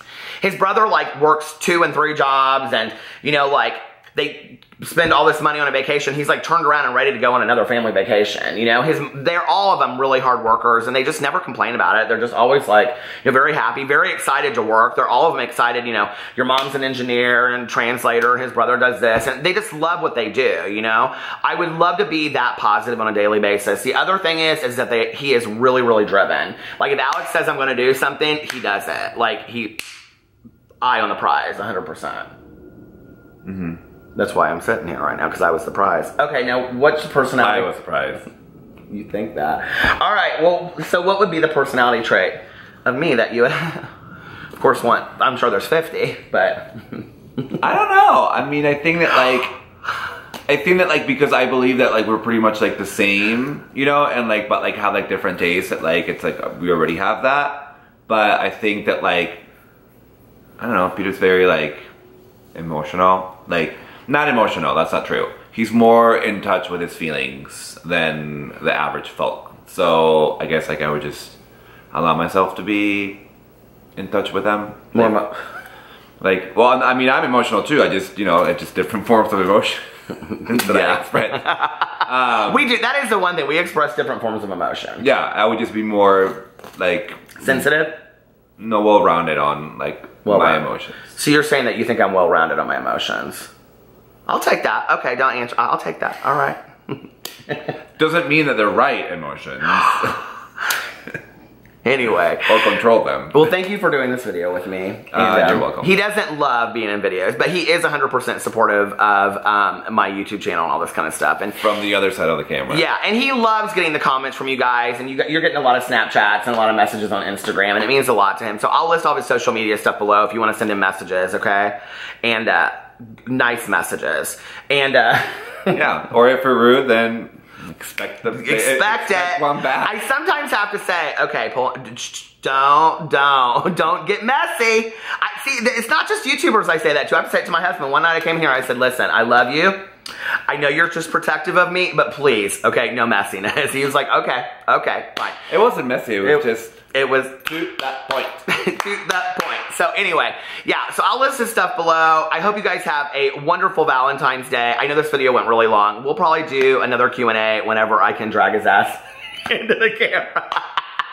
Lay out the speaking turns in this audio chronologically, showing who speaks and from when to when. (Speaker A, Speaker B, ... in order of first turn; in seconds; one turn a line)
Speaker A: 0.4-29.8
Speaker A: 30.8-32.3
Speaker B: 33.5-33.8
Speaker A: 34.2-37.7
Speaker B: 37.4-38.2
Speaker A: 38.9-43.9
Speaker A: 44.5-47.6
Speaker B: 47.6-49.6
Speaker B: 50.5-59.4
Speaker B: 60.6-61.9
Speaker B: 62.5-71.4
Speaker B: 71.9-73.2
Speaker B: 74.0-75.2
Speaker A: 74.9-75.3
Speaker B: 76.2-82.7
Speaker A: 80.4-85.0
Speaker B: 85.0-87.7
Speaker A: 87.4-88.0
Speaker B: 88.6-91.1
Speaker A: 90.2-93.5
Speaker A: 94.3-97.7
Speaker B: 98.0-100.3
Speaker A: 101.8-102.8
Speaker B: 102.5-103.5
Speaker A: 103.3-111.6
Speaker B: 105.1-105.9
Speaker B: 111.6-112.8
Speaker A: 112.7-125.8
Speaker B: 125.7-129.9
Speaker A: 128.3-139.8
Speaker A: 140.5-145.4
Speaker B: 145.5-146.9
Speaker A: 146.2-147.7
Speaker B: 147.5-148.4
Speaker A: 148.5-160.8